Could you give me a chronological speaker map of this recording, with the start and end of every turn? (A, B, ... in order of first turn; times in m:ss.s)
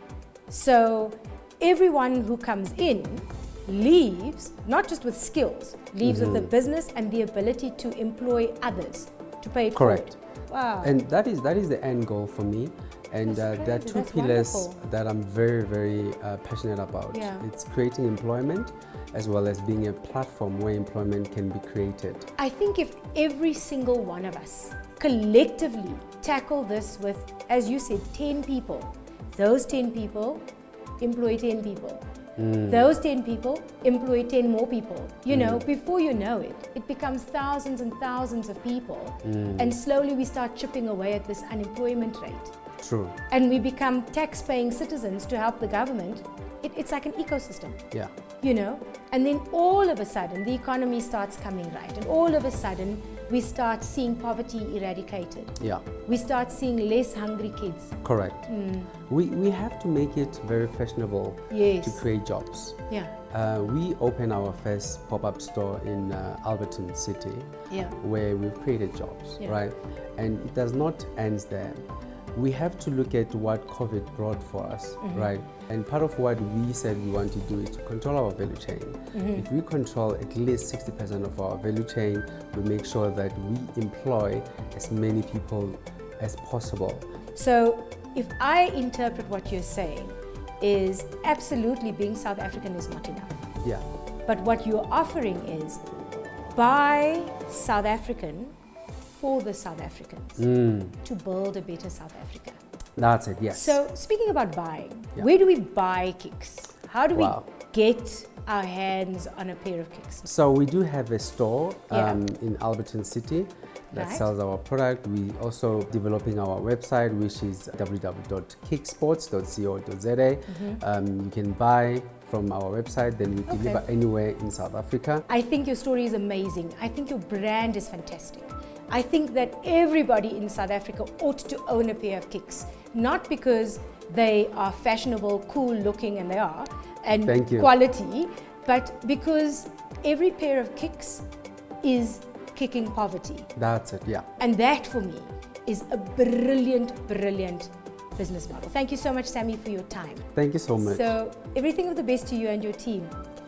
0:00.5-0:10.9 A
0:06.0-0:06.5 B
0:09.8-0:10.2 B
0:10.8-0:22.3 B
0:13.2-0:14.8 A
0:17.1-0:17.4 A
0:22.4-0:30.4 A
0:31.0-0:32.0 A
0:32.4-0:32.9 B
0:32.7-0:42.6 A
0:35.3-0:35.6 B
0:39.2-0:39.8 B
0:42.8-0:43.2 B
0:43.3-0:47.8 A
0:48.4-0:58.9 A
0:55.6-0:55.8 B
0:58.0-1:11.8 B
1:01.5-1:02.0 A
1:02.9-1:03.1 A
1:07.7-1:08.0 A
1:12.3-1:27.1 B
1:15.0-1:15.3 A
1:19.1-1:19.4 A
1:27.4-1:33.4 A
1:34.3-1:35.8 A
1:36.6-1:38.6 A
1:39.1-1:40.5 A
1:40.4-1:41.0 B
1:41.0-1:42.6 A
1:43.0-1:43.8 B
1:43.5-1:50.3 A
1:47.1-1:47.4 B
1:50.2-2:05.2 B
1:51.9-1:52.2 A
1:53.9-1:54.3 A
2:00.5-2:00.8 A
2:03.5-2:03.8 A
2:05.3-2:21.2 A
2:17.2-2:17.7 B
2:21.8-2:23.5 A
2:23.6-2:24.3 B
2:24.4-2:30.3 A
2:30.4-2:31.1 B
2:30.8-2:33.2 A